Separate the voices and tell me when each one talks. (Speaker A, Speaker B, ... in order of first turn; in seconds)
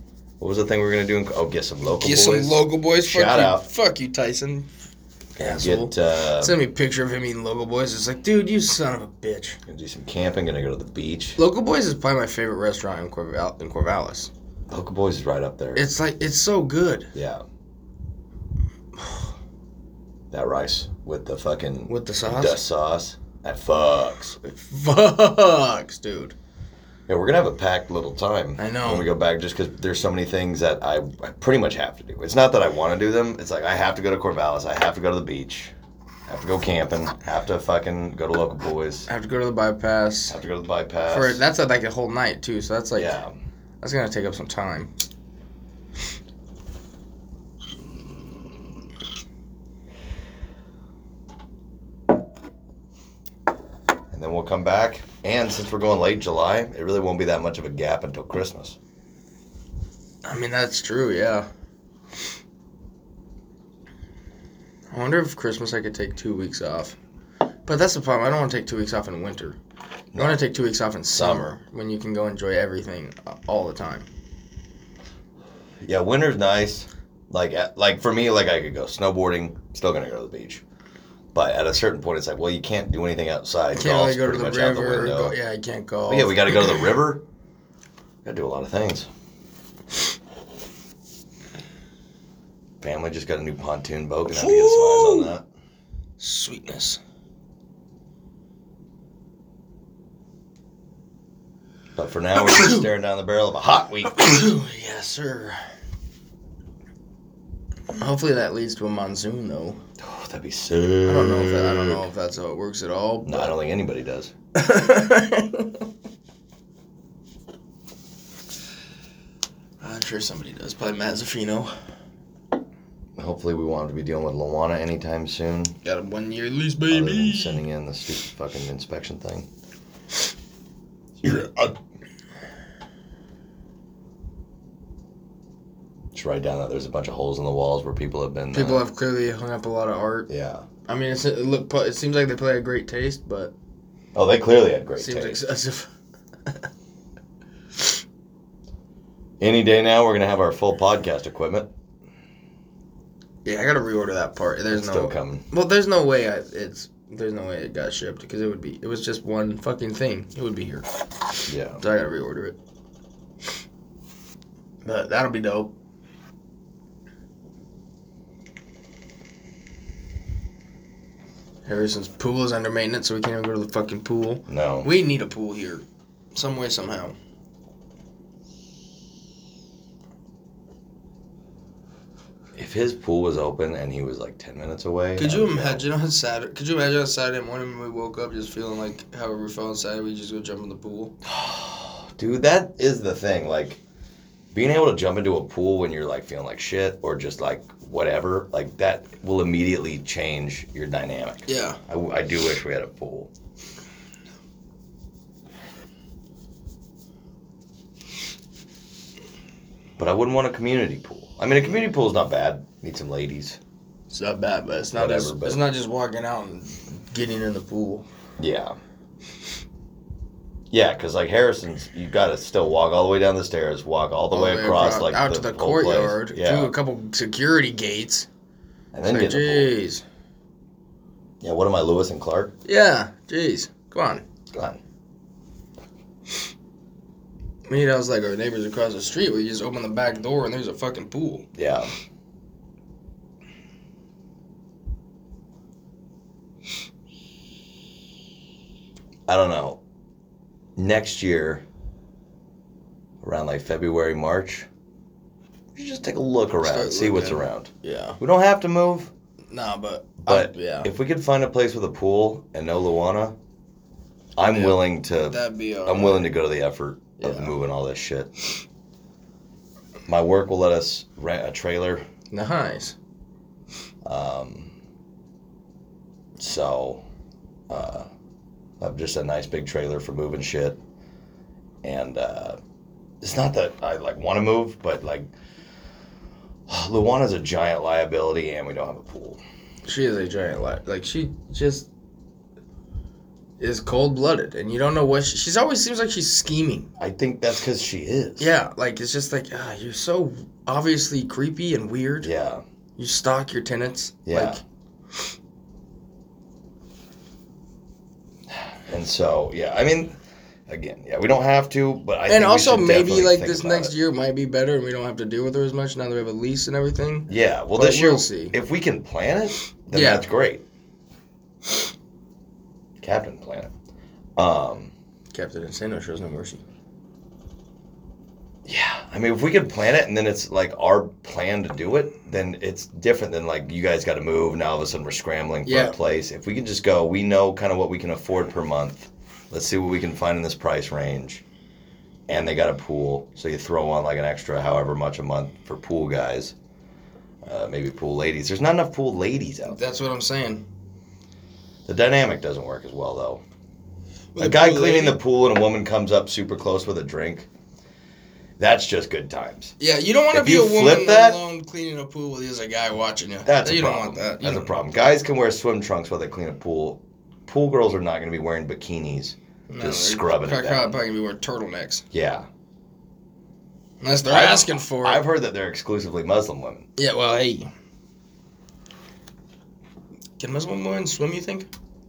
Speaker A: 0.4-3.6, 5.4-6.5, 9.7-11.4, 14.7-15.9, 17.1-17.4, 20.3-24.4, 27.1-35.7, 36.3-39.1, 40.3-41.4, 42.9-43.3, 54.1-58.8, 70.1-70.4, 71.1-71.5, 75.8-80.6, 81.3-85.3, 86.1-87.2, 88.2-89.1, 92.8-95.4, 102.0-104.4, 110.0-112.0, 113.2-114.3, 123.2-125.7, 126.9-129.5, 131.2-131.7, 136.1-138.8, 140.3-140.7, 144.1-145.4, 149.4-151.7, 154.7-155.4, 161.5-161.8, 174.5-174.9, 182.5-185.8, 191.2-193.8, 194.5-203.3, 210.0-213.6, 214.9-215.6, 218.4-218.8, 220.7-226.7, 228.9-229.7, 231.4-232.5, 234.5-234.8, 241.5-241.9, 249.3-249.8, 250.8-251.6, 253.2-254.7, 255.7-259.1, 260.2-263.4, 264.4-268.3, 270.1-272.0, 274.0-274.7, 276.4-277.0, 277.7-278.1, 278.8-280.8, 281.8-282.6, 283.2-285.3, 286.7-289.4, 297.0-298.5, 302.2-302.6, 304.2-304.6, 308.9-310.1, 310.7-313.9, 317.3-320.6, 323.0-323.7, 324.4-324.9, 328.6-341.4, 342.3-346.5, 347.4-349.8, 351.9-353.4, 354.4-357.5, 358.6-359.7, 360.3-361.4, 363.4-370.9, 372.1-372.5, 374.3-376.9
Speaker B: 1.8-4.7, 5.4-9.6, 11.4-14.3, 15.7-17.1, 21.9-22.6, 24.4-26.3, 28.6-29.1, 39.1-40.4, 41.1-43.2, 43.8-44.9, 60.2-61.5, 64.9-67.0, 67.7-69.6, 70.2-74.1, 83.7-86.8, 94.3-95.3, 96.2-97.0, 102.4-102.8, 104.1-105.6, 107.9-109.8, 111.0-113.5, 114.5-115.8, 119.8-121.7, 125.8-127.6, 138.5-140.3, 140.9-143.5, 145.0-145.9, 153.4-160.9, 161.8-162.6, 164.8-165.7, 171.7-177.2, 185.2-191.1, 201.5-201.8, 214.1-218.1, 224.3-228.3, 229.1-230.0, 232.6-234.2, 237.7-241.5, 256.6-258.2, 259.5-260.9, 264.5-266.3, 267.2-267.5, 272.3-272.9, 289.9-291.9, 293.6-296.9, 298.4-302.3, 303.0-304.6, 312.3-318.6, 319.9-320.2, 325.3-326.6, 335.6-335.9, 349.6-350.6, 354.3-355.2, 359.8-364.7, 369.7-372.0, 374.0-375.2, 377.0-377.7, 380.4-381.7